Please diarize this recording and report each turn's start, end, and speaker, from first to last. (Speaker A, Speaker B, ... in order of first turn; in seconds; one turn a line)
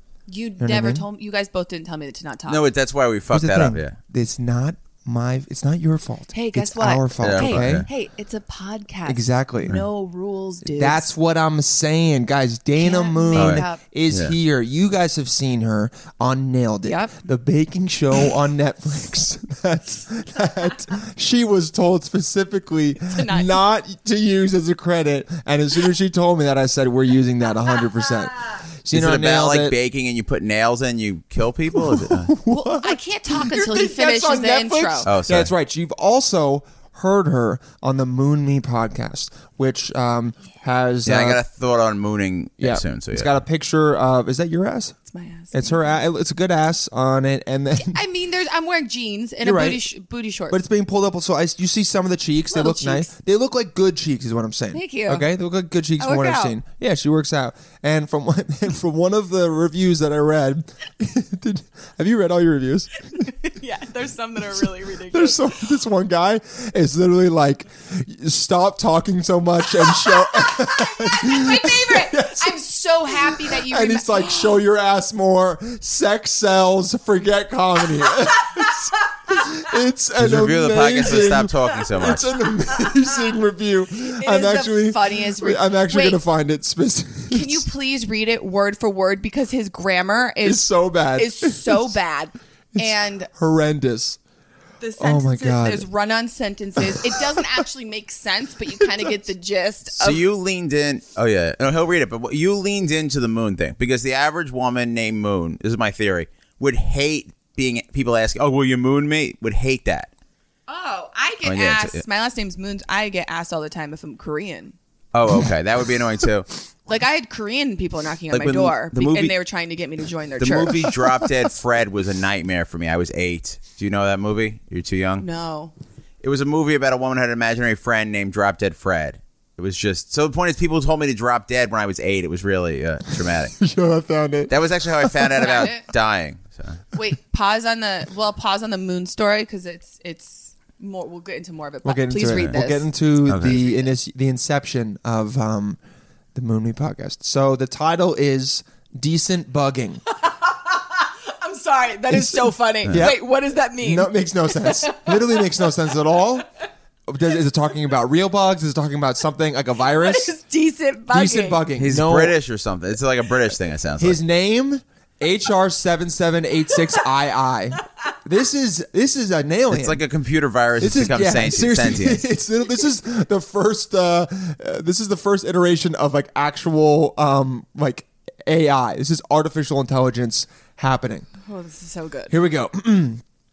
Speaker A: 0.3-2.6
Speaker B: 0.6-1.1
Speaker C: 2.5-3.9
Speaker B: 3.3-7.9
Speaker A: 6.3-11.1
Speaker C: 7.2-7.9
Speaker B: 9.1-9.8
Speaker B: 10.7-29.8
Speaker A: 12.8-13.8
Speaker C: 13.3-14.3
Speaker A: 16.9-17.2
Speaker A: 23.0-23.5
Speaker C: 28.9-32.3
Speaker B: 31.7-41.4
Speaker A: 32.5-35.1
Speaker C: 35.1-35.5
Speaker C: 41.1-43.3
Speaker B: 42.6-44.9
Speaker A: 45.1-45.9
Speaker B: 45.5-48.0
Speaker A: 47.8-50.6
Speaker B: 49.4-49.8
Speaker B: 50.5-62.9
Speaker A: 52.5-53.1
Speaker A: 54.7-55.2
Speaker A: 56.0-56.6
Speaker A: 63.1-65.6
Speaker B: 65.1-87.7
Speaker A: 70.1-74.6
Speaker A: 78.4-79.2
Speaker C: 80.2-82.4
Speaker A: 84.0-86.2
Speaker A: 87.3-93.3
Speaker B: 90.4-91.9
Speaker B: 92.7-94.2
Speaker A: 94.8-100.3
Speaker B: 95.0-95.9
Speaker B: 96.9-97.3
Speaker B: 98.7-99.1
Speaker C: 100.0-110.1
Speaker A: 110.7-114.8
Speaker C: 111.4-112.0
Speaker C: 115.1-116.5
Speaker A: 116.9-120.9
Speaker C: 118.3-119.3
Speaker C: 120.4-125.2
Speaker A: 125.2-125.7
Speaker C: 126.2-133.6
Speaker B: 133.6-135.6
Speaker C: 134.5-136.8
Speaker A: 135.4-135.8
Speaker A: 136.9-142.9
Speaker B: 141.8-145.8
Speaker C: 143.3-143.6
Speaker B: 146.3-150.0
Speaker A: 150.1-155.8
Speaker B: 152.1-153.2
Speaker C: 152.8-153.1
Speaker B: 153.8-156.4
Speaker B: 157.1-160.4
Speaker A: 159.9-161.6
Speaker B: 161.1-162.4
Speaker C: 161.8-164.2
Speaker B: 164.0-170.0
Speaker C: 169.7-172.2
Speaker B: 170.8-181.3
Speaker A: 181.4-182.3
Speaker B: 182.3-183.2